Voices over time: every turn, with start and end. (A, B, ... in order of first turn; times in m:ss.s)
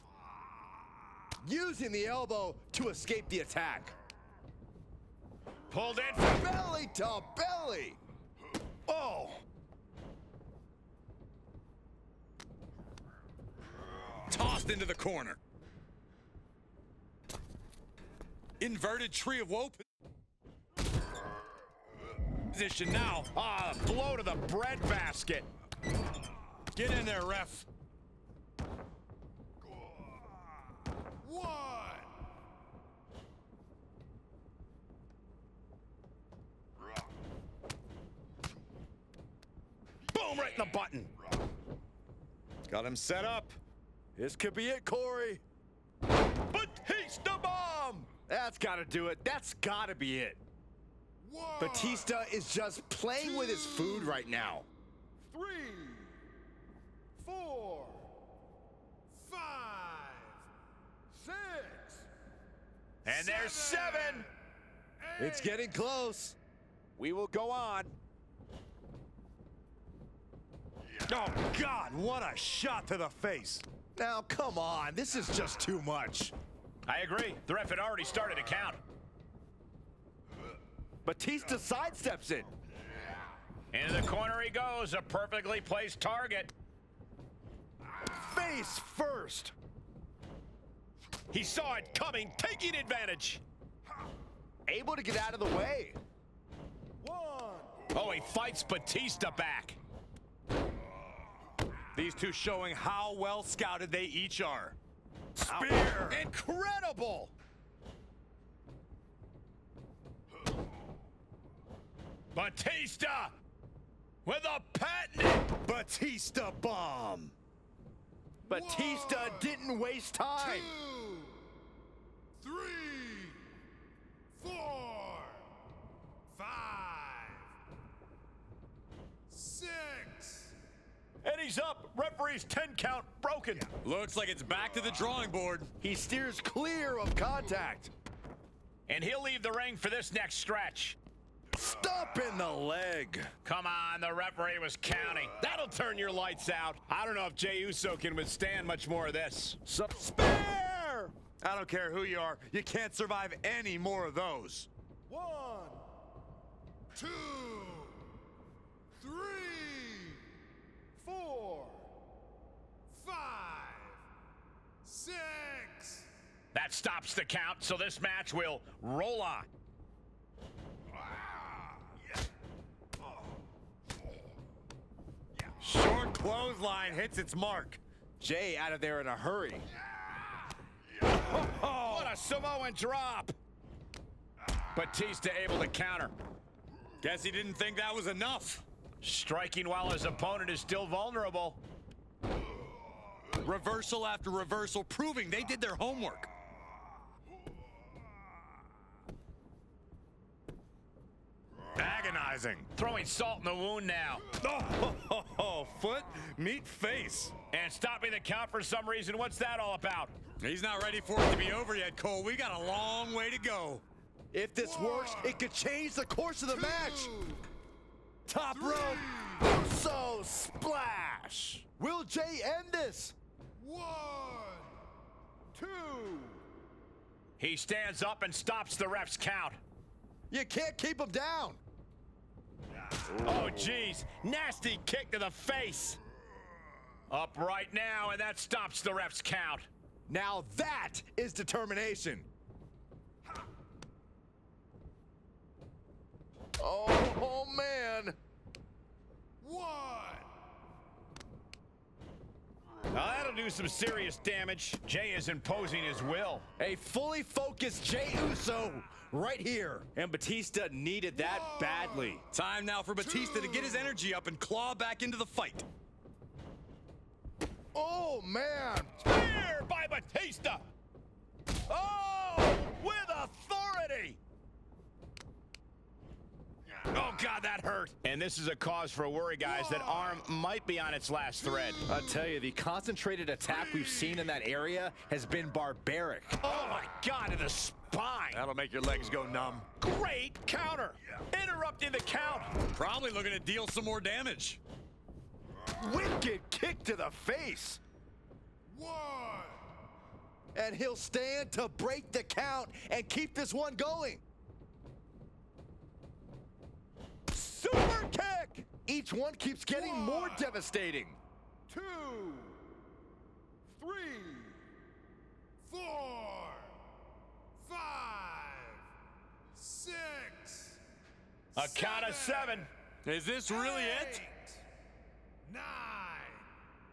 0:01.4-0:04.0 A
0:05.7-0:06.5 B
0:06.2-0:08.0 A
0:08.9-0:09.4 A
0:14.3-0:15.4 C
0:18.6-0:19.8 C
0:22.5-0:23.3 C
0:23.3-0:25.5 B
0:26.7-0:27.7 C
0:31.2-0:32.1 D
0:40.1-0:41.1 B
0:42.7-0:43.6 C
0:44.2-0:45.4 A
0:46.5-0:48.1 B
0:48.3-0:50.4 A
0:51.2-0:52.1 D
0:51.6-0:54.7 A
0:53.2-0:54.2 D
0:55.2-0:56.2 A
0:57.2-0:58.1 A
0:59.1-1:00.5 D
1:01.1-1:02.1 A
1:03.0-1:04.3 B
1:03.1-1:04.3 D
1:05.0-1:05.6 D
1:05.2-1:06.4 A
1:07.0-1:07.9 B
1:11.1-1:13.6 C
1:14.0-1:16.4 A
1:16.9-1:18.8 B
1:21.0-1:22.5 A
1:23.7-1:26.5 B
1:28.0-1:29.6 A
1:31.3-1:33.4 B
1:34.7-1:36.0 A
1:37.0-1:37.7 A
1:37.9-1:39.8 B
1:41.9-1:44.8 C
1:45.4-1:46.2 C
1:45.5-1:46.2 A
1:46.1-1:47.3 B
1:52.3-1:53.4 B
1:54.3-1:55.5 B
1:55.6-1:57.3 C
1:58.5-1:59.5 D
1:58.5-2:00.7 A
2:00.4-2:01.4 D
2:02.4-2:03.5 D
2:04.3-2:05.5 D
2:06.3-2:07.5 D
2:09.3-2:10.6 D
2:11.2-2:13.7 B
2:13.8-2:15.7 C
2:15.8-2:17.9 A
2:18.9-2:21.0 B
2:21.5-2:23.3 A
2:23.4-2:29.6 B
2:30.0-2:31.1 A
2:31.4-2:34.7 C
2:35.1-2:35.8 A
2:36.9-2:38.1 D
2:39.0-2:40.3 D
2:41.0-2:41.9 A
2:42.9-2:44.0 D
2:44.8-2:46.1 D
2:46.5-2:49.5 B
2:55.6-2:57.8 C
2:58.2-2:59.7 A
3:01.1-3:02.1 C
3:01.8-3:03.4 B
3:04.7-3:06.1 B
3:07.0-3:08.6 C
3:09.0-3:11.6 B
3:13.4-3:16.3 C
3:21.8-3:22.7 C
3:22.8-3:24.2 B
3:24.4-3:27.3 C
3:27.5-3:30.1 B
3:30.4-3:33.8 C
3:34.3-3:37.1 A
3:34.6-3:35.4 D
3:36.5-3:37.4 D
3:38.3-3:39.0 C
3:38.5-3:39.6 D
3:39.4-3:43.2 A
3:43.6-3:44.7 D
3:45.5-3:46.4 A
3:47.4-3:49.6 B
3:50.3-3:51.6 A
3:53.2-3:56.0 B
3:57.1-3:59.7 B
4:00.1-4:02.3 A
4:06.6-4:08.2 A
4:09.4-4:10.3 D
4:12.9-4:16.5 B
4:16.6-4:22.2 A
4:21.1-4:22.2 D
4:22.3-4:25.7 C
4:23.0-4:24.0 D
4:27.7-4:29.0 A
4:29.0-4:30.7 B
4:31.7-4:34.2 B
4:37.0-4:41.8 B
4:41.9-4:46.7 A
4:46.4-4:48.4 B
4:48.3-4:49.7 C
4:49.8-4:52.5 B
4:52.7-4:54.6 C
4:55.8-4:57.8 A
4:58.7-4:59.6 D
5:00.6-5:04.2 A
5:07.3-5:11.2 A
5:09.7-5:10.5 D
5:11.7-5:12.6 A
5:13.8-5:14.6 A
5:15.6-5:16.8 D
5:17.6-5:18.8 D
5:19.5-5:20.8 D
5:21.6-5:22.7 D
5:21.6-5:22.7 B
5:23.0-5:24.3 C
5:23.5-5:24.6 D
5:25.4-5:26.5 D